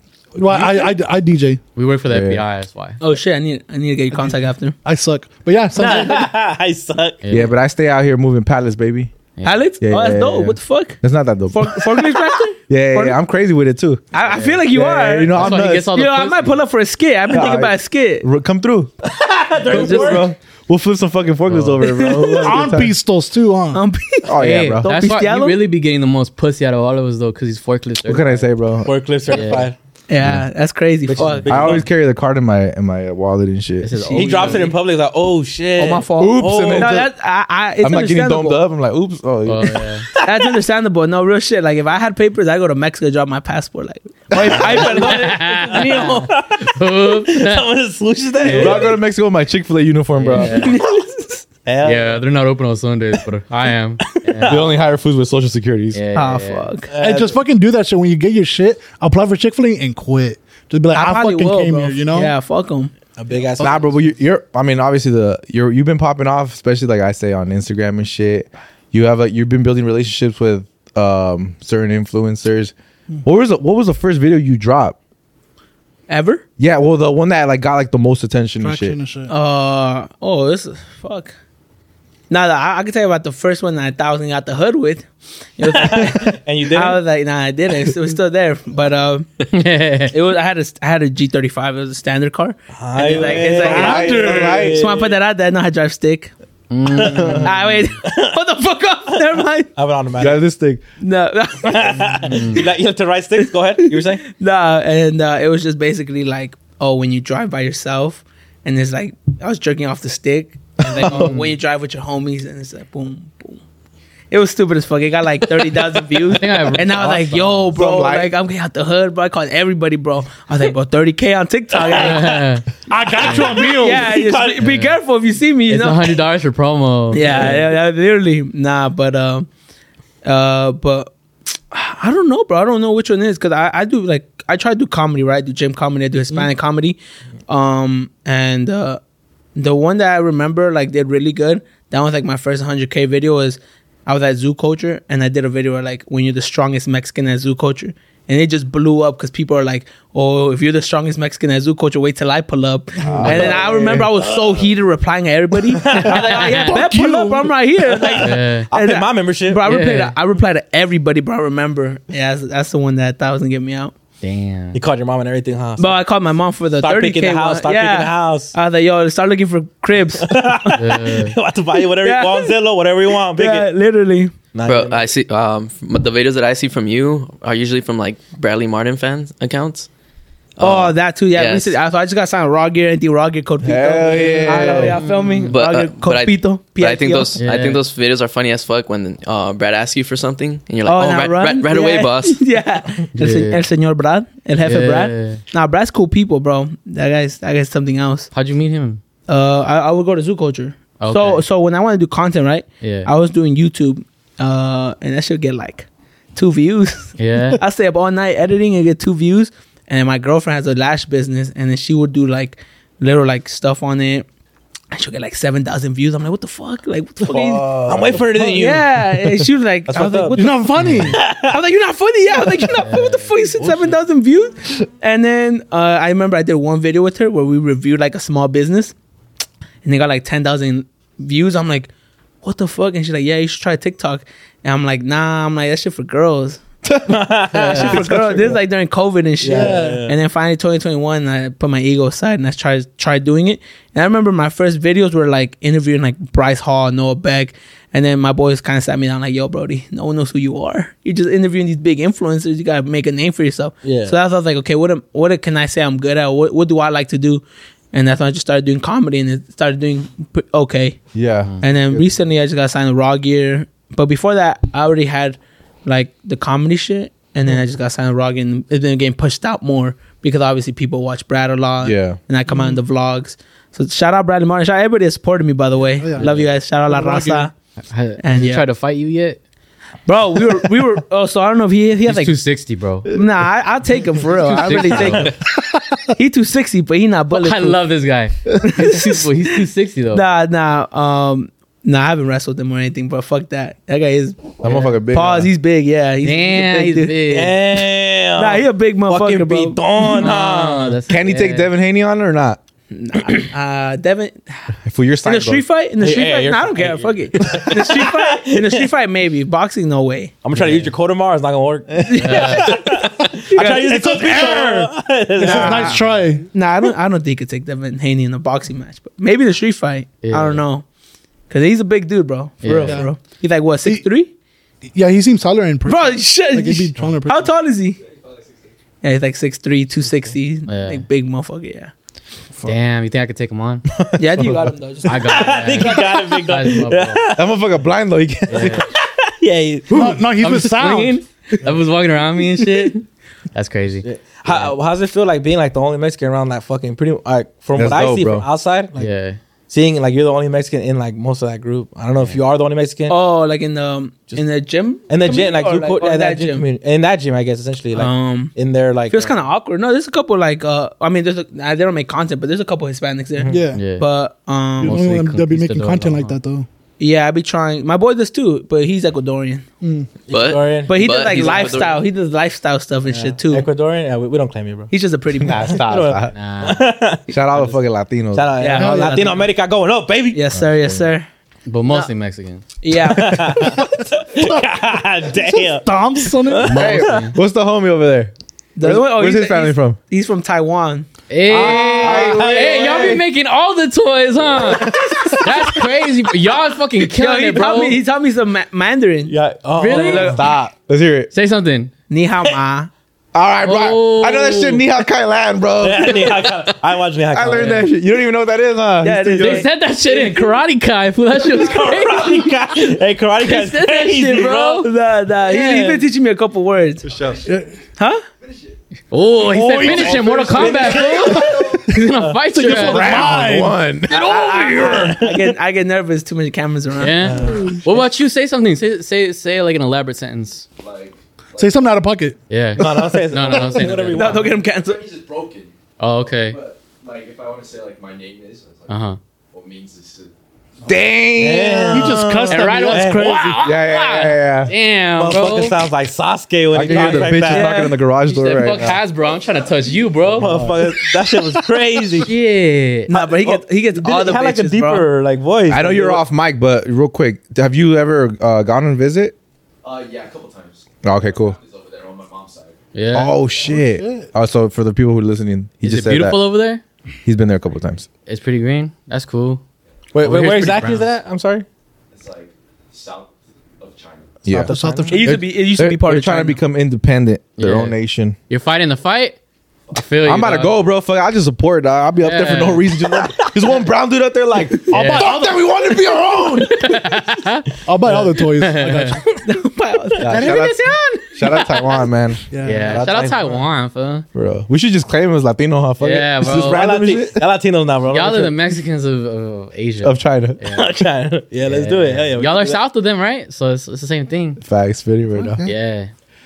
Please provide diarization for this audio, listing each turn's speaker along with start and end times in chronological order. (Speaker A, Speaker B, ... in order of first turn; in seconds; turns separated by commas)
Speaker A: 0.3-1.6, Speaker B: 0.6-0.9, Speaker C: 1.8-3.0, Speaker D: 2.1-2.4, Speaker B: 3.0-4.8, Speaker A: 4.2-6.3, Speaker E: 5.8-7.2, Speaker C: 7.2-7.5, Speaker D: 7.3-9.1, Speaker C: 9.4-9.6, Speaker B: 9.4-11.0, Speaker D: 9.8-11.8, Speaker B: 11.5-13.2, Speaker D: 12.7-14.1, Speaker B: 14.1-18.3, Speaker C: 14.2-14.7, Speaker D: 14.7-15.9, Speaker C: 15.3-16.6, Speaker D: 17.3-18.9, Speaker E: 19.1-20.4, Speaker D: 19.6-22.9, Speaker B: 19.7-20.3, Speaker C: 21.5-22.0, Speaker B: 21.8-22.6, Speaker A: 22.4-23.8, Speaker B: 23.7-25.6, Speaker D: 24.2-24.9, Speaker C: 24.4-28.5, Speaker D: 28.0-28.9, Speaker E: 28.8-29.8, Speaker C: 29.3-29.7, Speaker B: 30.1-31.8, Speaker E: 31.1-31.8, Speaker D: 31.2-33.9, Speaker C: 33.8-34.7, Speaker B: 34.0-34.7, Speaker E: 34.1-37.0, Speaker B: 35.8-38.6, Speaker D: 36.2-37.1, Speaker D: 37.8-39.9, Speaker C: 39.5-40.1, Speaker B: 40.2-46.3, Speaker D: 44.3-44.9, Speaker E: 44.6-49.0, Speaker C: 44.6-47.6, Speaker C: 48.4-48.9, Speaker D: 48.5-50.6, Speaker C: 50.2-50.8, Speaker B: 50.4-51.5, Speaker E: 51.6-52.2, Speaker C: 51.8-54.7, Speaker D: 54.5-56.0, Speaker C: 55.9-56.7, Speaker B: 56.1-56.9, Speaker E: 56.9-57.4, Speaker A: 57.0-62.3, Speaker B: 60.9-62.9, Speaker E: 63.2-64.1, Speaker D: 63.6-72.7, Speaker D: 73.2-75.0, Speaker B: 76.1-76.4, Speaker D: 76.6-79.0, Speaker A: 78.6-79.3, Speaker B: 79.3-81.3, Speaker B: 82.3-85.1, Speaker B: 85.6-89.3, Speaker E: 85.7-87.0, Speaker C: 89.5-90.2, Speaker B: 90.1-96.3, Speaker E: 92.7-95.2, Speaker A: 93.6-94.5, Speaker D: 93.6-94.9, Speaker C: 96.7-97.9, Speaker E: 96.9-97.5, Speaker B: 97.4-99.7, Speaker E: 98.0-98.4, Speaker E: 99.7-100.4, Speaker D: 100.2-100.8, Speaker B: 101.0-102.6, Speaker E: 101.6-104.2, Speaker C: 102.3-102.6, Speaker B: 103.4-113.6, Speaker D: 110.8-111.3, Speaker C: 111.0-111.5, Speaker B: 114.3-122.3, Speaker C: 116.3-117.7, Speaker D: 117.0-118.3, Speaker E: 121.7-122.5, Speaker C: 122.0-122.7, Speaker A: 122.9-124.1, Speaker E: 123.1-124.6, Speaker C: 123.2-123.5, Speaker B: 123.6-126.2, Speaker C: 124.6-124.9, Speaker C: 125.7-127.5, Speaker B: 127.1-129.5, Speaker E: 127.2-127.6, Speaker B: 130.2-131.1, Speaker B: 131.7-139.0, Speaker B: 139.6-163.9, Speaker D: 153.0-154.1, Speaker E: 153.2-154.6, Speaker E: 155.7-156.6, Speaker C: 156.0-156.7, Speaker A: 156.6-157.6, Speaker E: 158.0-159.6, Speaker C: 158.2-158.7, Speaker C: 159.7-160.2, Speaker C: 164.2-164.8, Speaker E: 164.7-166.0, Speaker B: 165.8-170.8, Speaker E: 166.8-168.5, Speaker E: 170.2-173.7, Speaker C: 170.8-171.4, Speaker B: 171.8-172.6, Speaker B: 173.3-174.3, Speaker E: 174.5-175.1, Speaker F: 174.7-179.9, Speaker F: 180.6-181.8, Speaker B: 180.6-187.4, Speaker D: 183.6-185.0, Speaker C: 185.0-185.5, Speaker F: 185.5-192.4, Speaker C: 187.4-187.8, Speaker B: 190.8-198.3, Speaker C: 193.2-193.6, Speaker C: 194.6-195.4, Speaker C: 198.3-199.0, Speaker B: 199.3-214.3, Speaker C: 201.0-201.4, Speaker C: 202.8-203.1, Speaker C: 207.2-207.6, Speaker B: 214.9-217.7, Speaker D: 217.2-218.3, Speaker E: 217.9-219.2, Speaker B: 218.3-228.9, Speaker E: 219.9-220.5, Speaker A: 220.3-221.2, Speaker C: 220.8-221.2, Speaker E: 221.2-221.6, Speaker C: 222.8-223.3, Speaker B: 229.8-231.9, Speaker B: 232.4-236.6, Speaker D: 236.9-237.2, Speaker E: 237.1-238.6, Speaker C: 237.5-238.0, Speaker B: 237.6-261.0, Speaker E: 239.4-240.2, Speaker A: 239.5-240.1, Speaker E: 253.8-254.2, Speaker D: 261.1-262.0, Speaker B: 261.6-277.5, Speaker D: 271.8-272.2, Speaker A: 272.5-272.8, Speaker A: 276.0-276.3, Speaker C: 276.2-276.4, Speaker A: 276.9-277.5, Speaker C: 277.9-279.4, Speaker B: 278.2-278.6, Speaker B: 280.1-282.4, Speaker C: 282.1-283.1, Speaker B: 283.1-285.3, Speaker C: 284.3-285.3, Speaker A: 285.7-286.0, Speaker B: 286.2-287.8, Speaker C: 287.3-290.2, Speaker B: 288.6-289.6, Speaker B: 290.1-297.2, Speaker D: 294.6-295.5, Speaker C: 294.7-294.9, Speaker C: 296.2-297.6, Speaker E: 297.3-301.0, Speaker B: 298.4-299.8, Speaker C: 300.0-301.7, Speaker D: 301.1-302.6, Speaker B: 302.9-304.7, Speaker D: 304.8-305.6, Speaker B: 305.2-310.3, Speaker E: 306.0-308.9, Speaker E: 310.4-316.0, Speaker C: 310.5-310.9, Speaker D: 312.0-312.3, Speaker B: 312.1-312.7, Speaker C: 312.2-312.9, Speaker B: 313.5-313.9, Speaker A: 313.6-316.5, Speaker B: 315.4-320.9, Speaker C: 320.2-320.6, Speaker B: 321.5-324.3, Speaker C: 322.6-323.1, Speaker A: 324.9-327.5, Speaker B: 325.9-328.0, Speaker G: 328.2-328.5, Speaker B: 329.0-331.9, Speaker C: 330.7-331.0, Speaker C: 332.6-333.9, Speaker D: 333.9-334.7, Speaker B: 334.2-336.0, Speaker C: 335.1-337.2, Speaker E: 335.2-337.4, Speaker D: 337.4-338.9, Speaker C: 338.5-338.9, Speaker E: 338.9-340.2, Speaker A: 339.9-341.2, Speaker C: 340.4-344.7, Speaker E: 344.0-349.1, Speaker D: 347.8-348.5, Speaker C: 349.0-349.4, Speaker E: 349.7-353.2, Speaker B: 353.1-356.7, Speaker E: 355.1-359.3, Speaker B: 357.9-358.5, Speaker B: 359.1-365.1, Speaker E: 363.4-363.6, Speaker A: 363.5-363.8, Speaker C: 363.7-364.1, Speaker C: 364.8-366.4, Speaker A: 364.8-366.7, Speaker B: 367.0-369.6, Speaker A: 369.8-370.1, Speaker E: 370.3-371.9, Speaker F: 370.3-372.0, Speaker B: 370.9-373.7, Speaker E: 373.1-374.9, Speaker B: 374.9-375.8, Speaker D: 375.4-376.4, Speaker E: 375.5-377.8, Speaker C: 376.3-376.9, Speaker D: 377.3-378.5, Speaker E: 378.3-380.4, Speaker B: 378.6-379.5, Speaker A: 378.8-379.2, Speaker B: 380.3-381.3, Speaker C: 381.7-382.6, Speaker B: 382.8-383.8, Speaker E: 383.1-387.3, Speaker A: 384.4-384.7, Speaker A: 385.4-386.8, Speaker C: 386.6-387.4, Speaker D: 386.7-390.0, Speaker B: 388.8-391.1, Speaker C: 391.3-398.0, Speaker E: 391.5-393.2, Speaker D: 391.5-393.2, Speaker D: 394.6-395.4, Speaker B: 397.0-400.4, Speaker E: 399.3-400.4, Speaker C: 399.8-400.4, Speaker D: 400.3-401.3, Speaker C: 401.3-401.9, Speaker B: 402.1-402.9, Speaker D: 403.3-406.4, Speaker C: 403.6-404.9, Speaker E: 405.8-407.9, Speaker D: 407.3-409.7, Speaker C: 407.5-407.9, Speaker B: 409.0-409.7, Speaker C: 409.4-412.5, Speaker E: 410.1-410.4, Speaker E: 411.4-414.9, Speaker C: 413.4-414.9, Speaker B: 414.5-417.1, Speaker E: 415.4-416.1, Speaker D: 417.1-417.4, Speaker G: 417.1-417.5, Speaker A: 417.4-417.7, Speaker B: 418.0-418.2, Speaker C: 419.1-423.4, Speaker A: 419.5-421.9, Speaker E: 419.7-422.4, Speaker A: 422.6-425.1, Speaker D: 422.7-425.0, Speaker B: 424.1-427.2, Speaker E: 424.7-425.5, Speaker C: 427.0-430.7, Speaker E: 427.2-427.8, Speaker A: 427.5-427.8, Speaker G: 430.8-432.0, Speaker A: 431.6-432.4, Speaker C: 432.5-434.5, Speaker E: 432.8-434.5, Speaker B: 434.1-435.0, Speaker G: 434.5-439.0, Speaker C: 436.0-436.6, Speaker C: 438.9-439.2, Speaker G: 439.5-440.3, Speaker D: 440.9-442.3, Speaker E: 441.4-443.4, Speaker A: 441.9-443.6, Speaker C: 442.4-445.9, Speaker D: 443.6-444.7, Speaker E: 445.2-447.8, Speaker D: 446.7-449.0, Speaker C: 446.9-447.3, Speaker B: 447.2-448.0, Speaker C: 448.3-450.6, Speaker G: 449.2-449.9, Speaker D: 450.3-450.8, Speaker E: 450.4-452.3, Speaker C: 452.2-453.1, Speaker B: 453.1-455.1, Speaker E: 453.1-456.2, Speaker D: 455.7-459.4, Speaker G: 459.8-462.8, Speaker D: 461.0-461.6, Speaker C: 462.9-463.4, Speaker D: 463.1-466.4, Speaker A: 463.7-464.3, Speaker C: 465.8-466.8, Speaker D: 467.2-468.1, Speaker C: 468.3-469.6, Speaker E: 470.1-471.7, Speaker C: 470.2-471.1, Speaker G: 472.1-474.5, Speaker D: 474.5-478.4, Speaker E: 474.5-475.3, Speaker A: 474.7-475.3, Speaker B: 475.1-476.6, Speaker C: 477.6-478.0, Speaker C: 478.5-479.4, Speaker C: 479.9-480.7, Speaker D: 480.2-487.1, Speaker C: 482.2-482.9, Speaker A: 484.9-485.7, Speaker C: 484.9-485.4, Speaker C: 486.7-487.7, Speaker A: 487.9-489.3, Speaker C: 488.4-489.2, Speaker B: 489.4-490.5, Speaker D: 490.2-493.4, Speaker C: 490.3-492.1, Speaker A: 492.5-493.0, Speaker C: 492.6-494.2, Speaker E: 492.9-493.6, Speaker D: 494.3-497.4, Speaker C: 496.0-496.8, Speaker E: 496.4-498.5, Speaker C: 498.1-500.9, Speaker D: 500.0-500.6, Speaker E: 500.7-502.8, Speaker C: 501.6-504.6, Speaker D: 504.6-505.7, Speaker A: 505.4-505.7, Speaker C: 505.6-506.1